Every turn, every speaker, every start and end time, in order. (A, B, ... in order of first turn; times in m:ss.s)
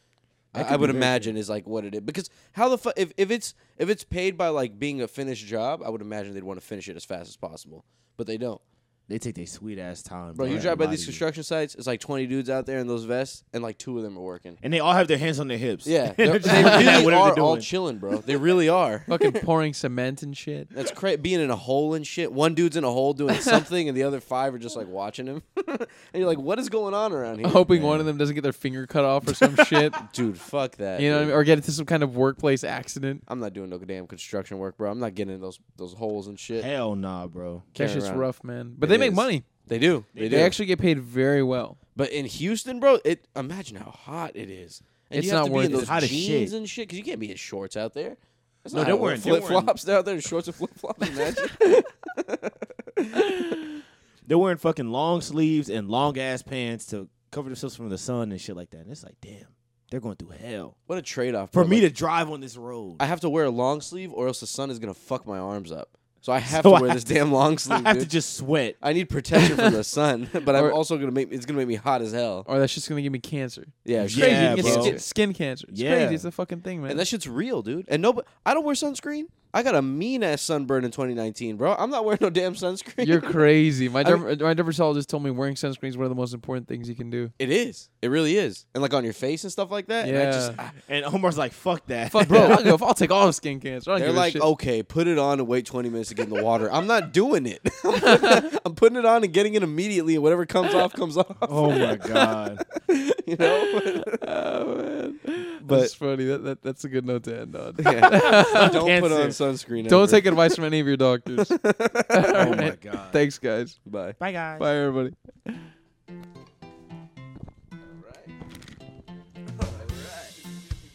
0:00.5-0:01.3 A
0:00.5-0:08.6 B
0:09.1-0:11.2 A
0:10.3-0:14.6 B
0:14.6-0:17.7 A
0:15.8-0:19.4 B
0:16.4-0:17.0 C
0:19.1-0:20.7 C
0:20.7-0:27.7 B
0:23.3-0:23.6 C
0:27.4-0:30.0 C
0:27.7-0:28.1 A
0:29.3-0:31.4 B
0:31.0-0:33.2 C
0:33.3-0:36.7 B
0:36.6-0:37.7 A
0:37.8-0:38.3 B
0:37.8-0:39.4 C
0:38.8-0:40.6 B
0:40.1-0:40.6 A
0:40.2-0:41.8 C
0:42.0-0:53.4 B
0:45.1-0:45.9 C
0:45.6-0:46.5 A
0:48.7-0:49.7 A
0:54.2-1:00.7 A
1:00.9-1:01.8 B
1:01.5-1:03.0 A
1:03.0-1:08.1 B
1:06.5-1:07.0 A
1:07.7-1:08.8 A
1:08.8-1:12.4 B
1:10.5-1:10.8 C
1:12.4-1:17.0 C
1:13.8-1:15.0 B
1:14.0-1:15.0 A
1:15.7-1:16.2 A
1:16.9-1:23.4 B
1:23.0-1:27.3 C
1:27.4-1:30.7 B
1:30.0-1:30.6 C
1:30.9-1:32.6 A
1:32.1-1:34.4 C
1:32.2-1:32.7 B
1:34.0-1:41.9 B
1:38.0-1:38.5 C
1:41.4-1:42.6 A
1:41.7-1:42.4 C
1:42.9-1:44.2 B
1:43.4-1:48.8 C
1:45.6-1:45.9 B
1:47.8-1:50.6 B
1:48.5-1:49.4 A
1:49.8-1:51.6 C
1:51.4-1:52.6 B
1:52.1-1:53.8 C
1:52.3-1:53.2 A
1:53.8-1:54.2 B
1:54.2-1:54.7 A
1:54.6-1:55.6 C
1:57.8-1:58.3 B
1:59.6-2:00.5 B